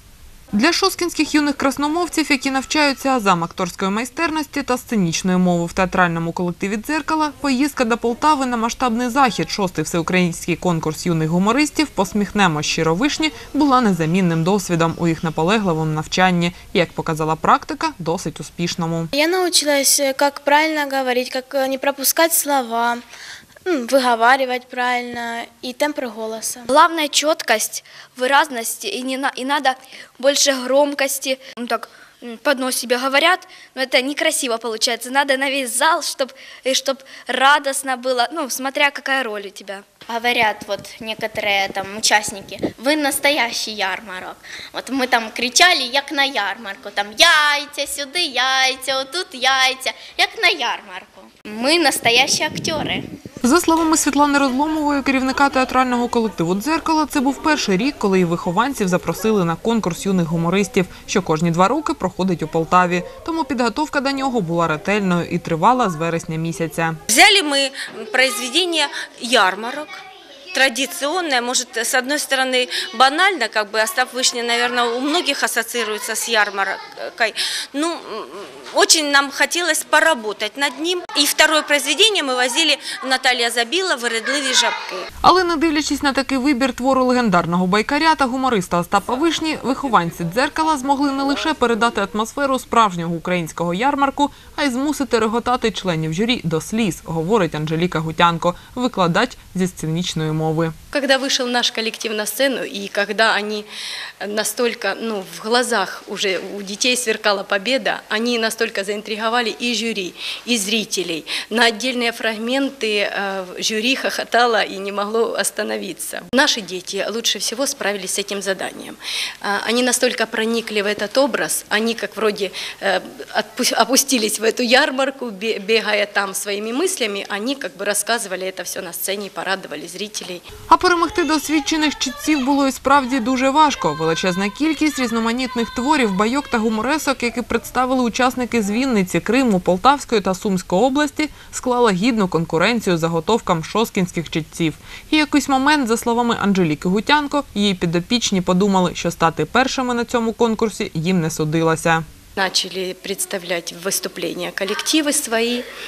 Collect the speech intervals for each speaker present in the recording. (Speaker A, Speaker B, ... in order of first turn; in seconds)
Speaker A: 0.5-19.1, 53.4-67.0, 85.2-100.7, 130.7-152.0
Speaker B: 19.1-23.0, 23.6-26.7
Speaker C: 26.7-39.8
Speaker D: 40.1-53.0
Speaker E: 67.1-70.0, 70.5-85.0
Speaker F: 100.9-103.7, 104.2-130.4, 152.4-155.7